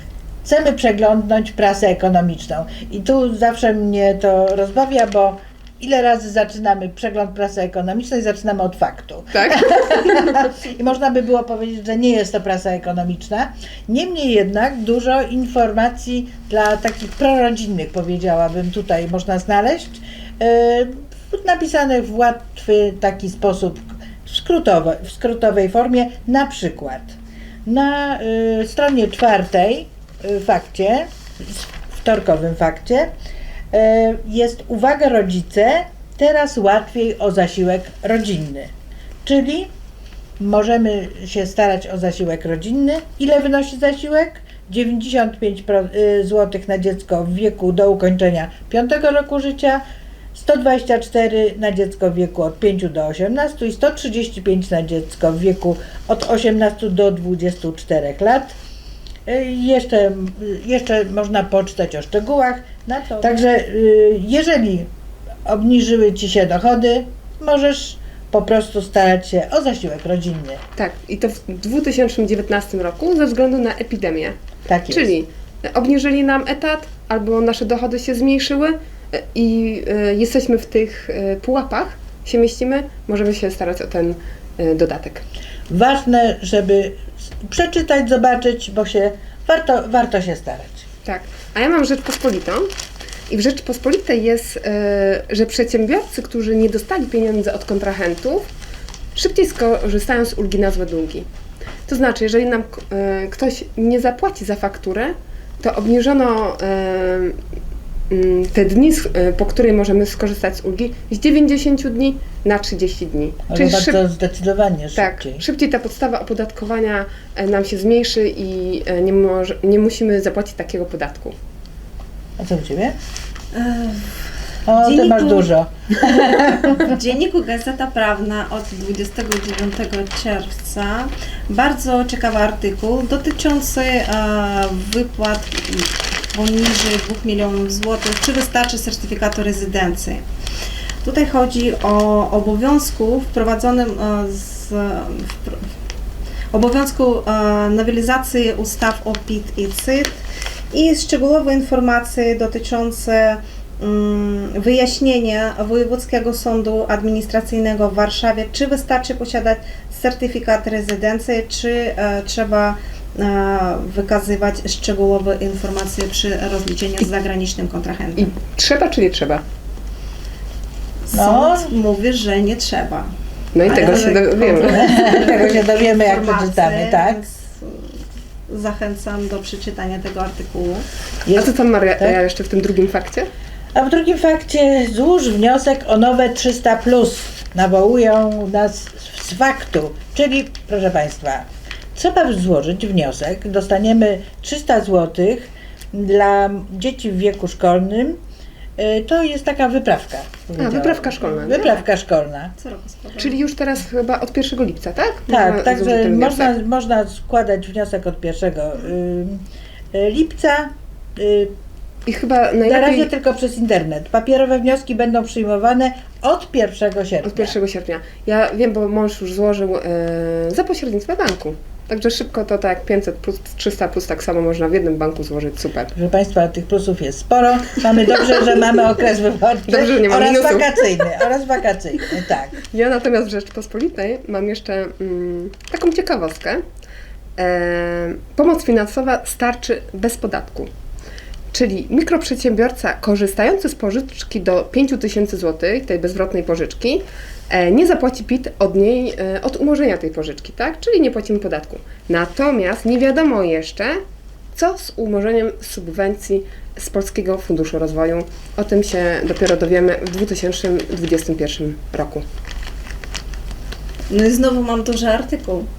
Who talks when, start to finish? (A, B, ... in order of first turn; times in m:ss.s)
0:00.4-0:33.1 A
0:09.3-0:10.4 B
0:33.7-0:38.7 A
0:39.2-0:39.7 A
0:40.4-0:49.8 A
0:50.3-0:58.6 A
0:59.2-1:04.9 A
1:05.4-1:10.6 A
1:10.8-1:14.3 B
1:14.7-1:15.1 A
1:14.9-1:25.2 B
1:25.7-1:30.9 A
1:31.0-1:32.7 B
1:33.3-1:38.5 B
1:39.1-1:41.2 B
1:41.9-1:47.3 B
1:48.1-1:54.0 B
1:53.5-1:55.4 A
1:54.9-2:01.3 B
2:02.4-2:02.9 A
2:03.5-2:20.2 C
2:04.7-2:06.8 A
2:21.0-2:25.6 C
2:26.5-2:48.3 C
2:48.2-2:49.4 B
2:51.1-2:53.1 C
2:51.1-2:51.7 A
2:53.5-2:54.9 B
2:53.6-3:00.8 C
2:53.7-2:57.2 A
3:01.2-3:02.2 A
3:01.3-3:03.3 B
3:03.7-3:18.2 A
3:18.8-3:22.5 A
3:20.6-3:21.7 B
3:21.4-3:21.7 C
3:22.6-3:23.4 C
3:23.2-3:26.5 B
3:25.3-3:29.4 A
3:29.9-3:31.5 A
3:32.0-3:33.1 B
3:32.6-3:37.6 A
3:37.2-3:45.9 B
3:45.9-3:52.6 A
3:49.7-3:51.3 B
3:52.7-3:56.6 B
3:57.4-4:00.7 B
4:01.5-4:14.0 B
4:14.5-4:22.2 B
4:24.1-4:25.7 C